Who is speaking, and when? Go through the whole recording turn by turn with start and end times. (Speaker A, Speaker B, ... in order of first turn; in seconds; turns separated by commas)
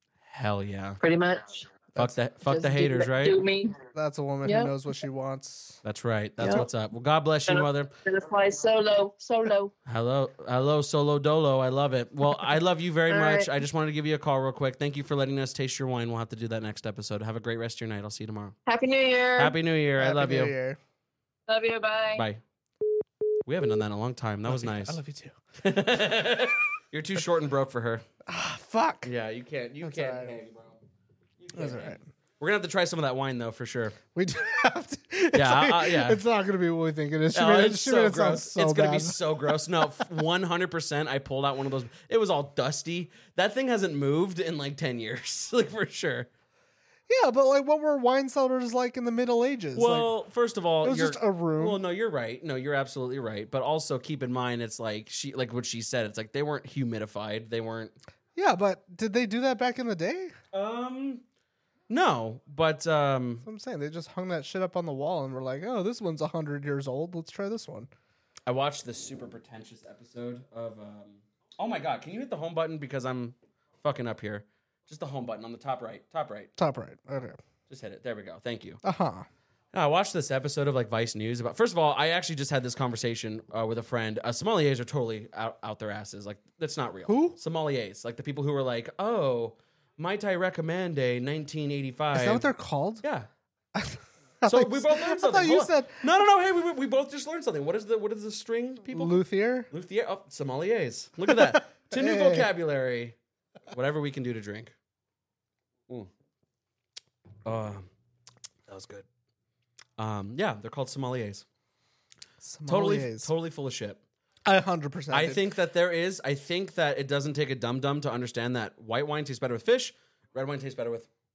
Speaker A: 0.3-1.0, Speaker B: 1.0-1.7, Speaker A: 2.0-3.4, Speaker B: 2.4-3.8, Speaker C: 3.9-5.8, Speaker B: 4.4-4.7, Speaker A: 5.8-7.9, Speaker B: 6.4-6.7, Speaker B: 7.5-9.7, Speaker A: 9.9-18.6, Speaker B: 13.1-13.5, Speaker B: 18.7-19.6, Speaker A: 19.4-20.5, Speaker C: 20.0-20.8, Speaker B: 21.5-22.2, Speaker A: 22.1-22.4, Speaker A: 23.5-25.0, Speaker C: 24.4-25.4, Speaker A: 25.6-28.0, Speaker C: 28.2-29.1, Speaker A: 29.0-30.8, Speaker C: 29.8-30.3, Speaker A: 31.4-34.0, Speaker C: 31.5-32.0, Speaker C: 34.1-40.0, Speaker A: 35.3-36.2, Speaker A: 37.3-46.3, Speaker C: 47.1-50.1, Speaker A: 49.7-58.0, Speaker C: 50.8-51.8, Speaker C: 58.3-60.4, Speaker A: 60.5-61.2, Speaker A: 61.9-63.5, Speaker C: 63.4-67.9, Speaker A: 68.5-76.5, Speaker C: 76.5-77.4, Speaker A: 77.7-78.8, Speaker C: 78.8-79.2, Speaker A: 79.7-92.5, Speaker C: 87.1-87.4, Speaker C: 92.1-93.0, Speaker A: 93.0-93.3, Speaker C: 93.7-96.0, Speaker A: 94.4-103.2, Speaker C: 98.9-99.7, Speaker C: 101.3-102.5, Speaker A: 103.7-104.7, Speaker A: 107.5-107.9, Speaker A: 108.7-109.0, Speaker A: 110.0-111.4, Speaker C: 112.4-113.3, Speaker A: 112.7-114.0, Speaker C: 114.5-115.4, Speaker A: 115.1-121.1